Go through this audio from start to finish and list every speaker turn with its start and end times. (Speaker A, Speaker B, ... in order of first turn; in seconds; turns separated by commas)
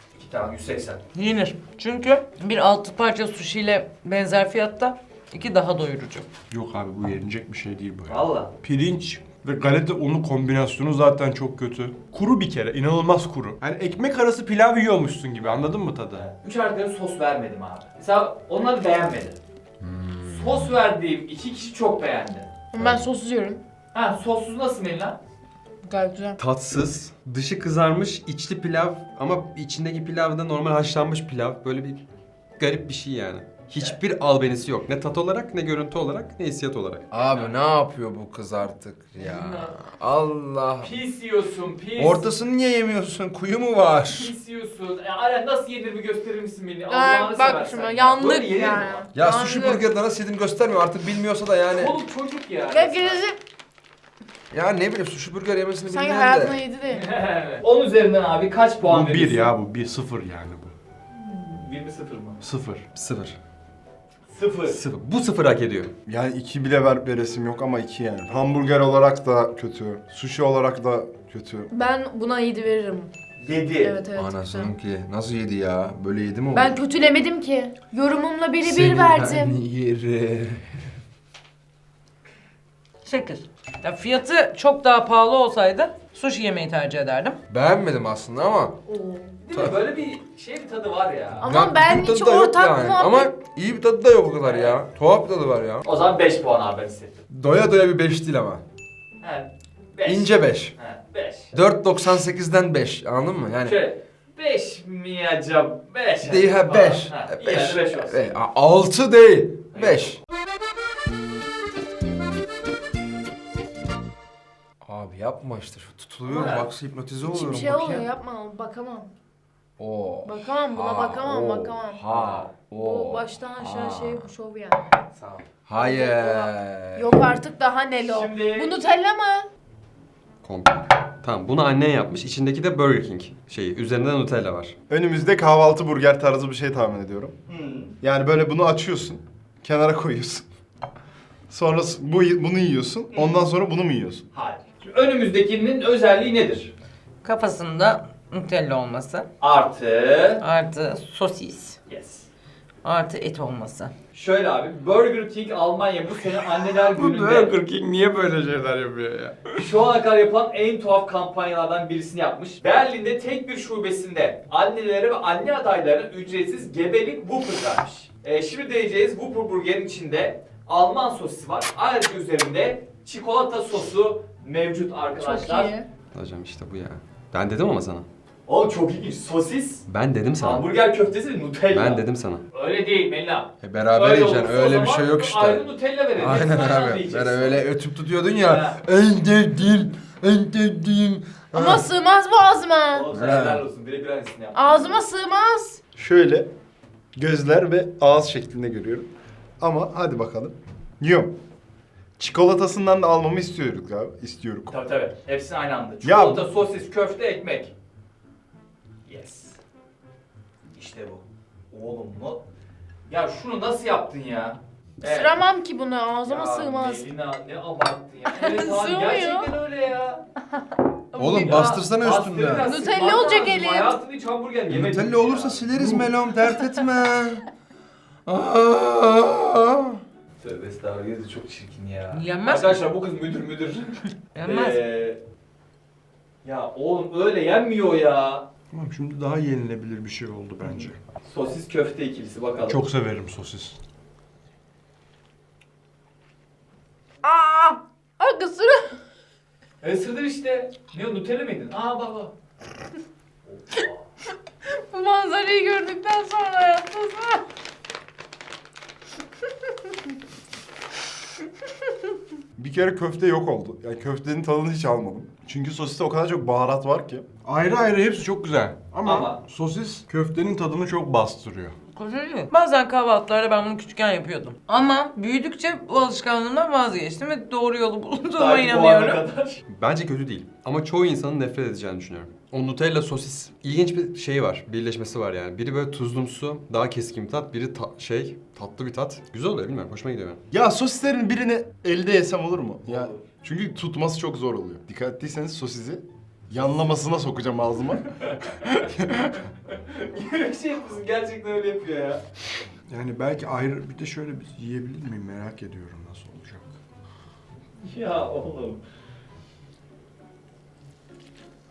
Speaker A: 0.2-1.0, Speaker B: 1.1-6.3, Speaker C: 6.5-16.3, Speaker A: 8.1-8.5, Speaker A: 16.2-19.4, Speaker D: 19.8-20.7, Speaker A: 20.2-22.5, Speaker E: 22.7-23.6, Speaker D: 22.8-23.1, Speaker A: 23.9-25.2, Speaker E: 25.9-26.4, Speaker F: 26.4-32.0, Speaker F: 32.6-37.1, Speaker D: 37.1-41.0, Speaker A: 37.1-37.5, Speaker A: 39.2-39.8, Speaker A: 40.8-42.2, Speaker D: 42.0-44.3, Speaker A: 44.1-49.1, Speaker E: 46.9-49.8, Speaker D: 49.1-51.9, Speaker A: 51.7-53.2, Speaker E: 52.7-53.4, Speaker D: 54.5-56.6, Speaker E: 55.9-57.1, Speaker A: 56.9-59.5, Speaker C: 58.8-60.7, Speaker A: 61.2-62.4, Speaker C: 62.4-62.8, Speaker F: 62.9-63.4, Speaker A: 64.3-64.8, Speaker F: 64.7-65.9, Speaker G: 66.1-71.7, Speaker E: 71.7-73.1, Speaker A: 73.4-74.0, Speaker E: 73.8-74.7, Speaker D: 74.1-76.8, Speaker E: 76.5-79.5, Speaker D: 78.6-80.8, Speaker B: 83.0-87.4, Speaker D: 87.5-88.8, Speaker E: 88.9-89.3, Speaker A: 89.4-91.4, Speaker E: 91.4-93.3, Speaker D: 91.4-95.8, Speaker A: 94.4-94.8, Speaker A: 95.8-97.2, Speaker D: 97.3-98.6, Speaker A: 99.2-101.5, Speaker D: 100.0-100.7, Speaker D: 101.5-103.8, Speaker A: 103.6-108.3, Speaker D: 106.2-110.2, Speaker A: 109.7-110.2, Speaker D: 114.8-118.1, Speaker A: 116.3-116.7, Speaker E: 117.2-119.1, Speaker D: 119.8-124.2, Speaker E: 120.2-122.0, Speaker A: 122.1-122.5, Speaker E: 122.8-125.0, Speaker A: 125.1-125.5, Speaker D: 125.7-127.4, Speaker E: 125.7-129.5, Speaker A: 128.0-128.7, Speaker F: 130.4-134.8, Speaker G: 134.9-137.3, Speaker A: 137.5-137.9, Speaker G: 138.0-140.4, Speaker G: 141.5-144.2, Speaker A: 144.3-146.7, Speaker B: 147.2-149.3, Speaker A: 149.4-150.4, Speaker B: 150.4-151.8, Speaker A: 151.9-152.3, Speaker B: 152.8-153.9, Speaker A: 154.1-157.6, Speaker C: 156.3-159.5, Speaker A: 159.5-175.7, Speaker E: 175.2-175.9, Speaker F: 176.1-178.1, Speaker A: 178.5-179.8, Speaker F: 179.9-180.7, Speaker A: 180.4-187.6, Speaker F: 181.7-182.4, Speaker D: 183.6-191.9, Speaker A: 188.4-188.8, Speaker E: 191.5-193.1, Speaker A: 192.9-195.0, Speaker D: 193.1-193.6, Speaker E: 194.5-195.8, Speaker G: 195.9-196.5, Speaker G: 197.2-201.3, Speaker G: 202.2-204.7, Speaker A: 204.7-207.7, Speaker G: 206.0-206.5, Speaker A: 209.0-209.6, Speaker A: 210.7-212.4, Speaker A: 213.1-215.3, Speaker E: 215.0-217.1, Speaker A: 216.2-220.2, Speaker E: 218.3-219.5, Speaker E: 221.1-221.8, Speaker D: 221.1-222.7, Speaker A: 221.4-225.7, Speaker E: 222.6-224.0, Speaker D: 224.7-227.4, Speaker C: 225.8-226.1, Speaker D: 228.2-230.0, Speaker A: 230.4-235.2, Speaker B: 232.1-232.8, Speaker B: 234.3-234.8, Speaker A: 236.4-238.4, Speaker C: 238.7-241.0, Speaker A: 240.6-242.8, Speaker C: 242.6-243.8, Speaker E: 247.2-248.9, Speaker A: 249.8-252.3, Speaker A: 253.4-254.0, Speaker E: 254.7-257.4, Speaker G: 262.6-267.2, Speaker C: 267.4-271.8, Speaker A: 269.0-269.4, Speaker B: 271.9-279.2, Speaker A: 278.4-279.6, Speaker F: 279.7-290.4, Speaker G: 290.5-298.1, Speaker A: 292.8-293.2, Speaker A: 299.7-302.2, Speaker C: 302.9-306.7, Speaker A: 307.8-308.8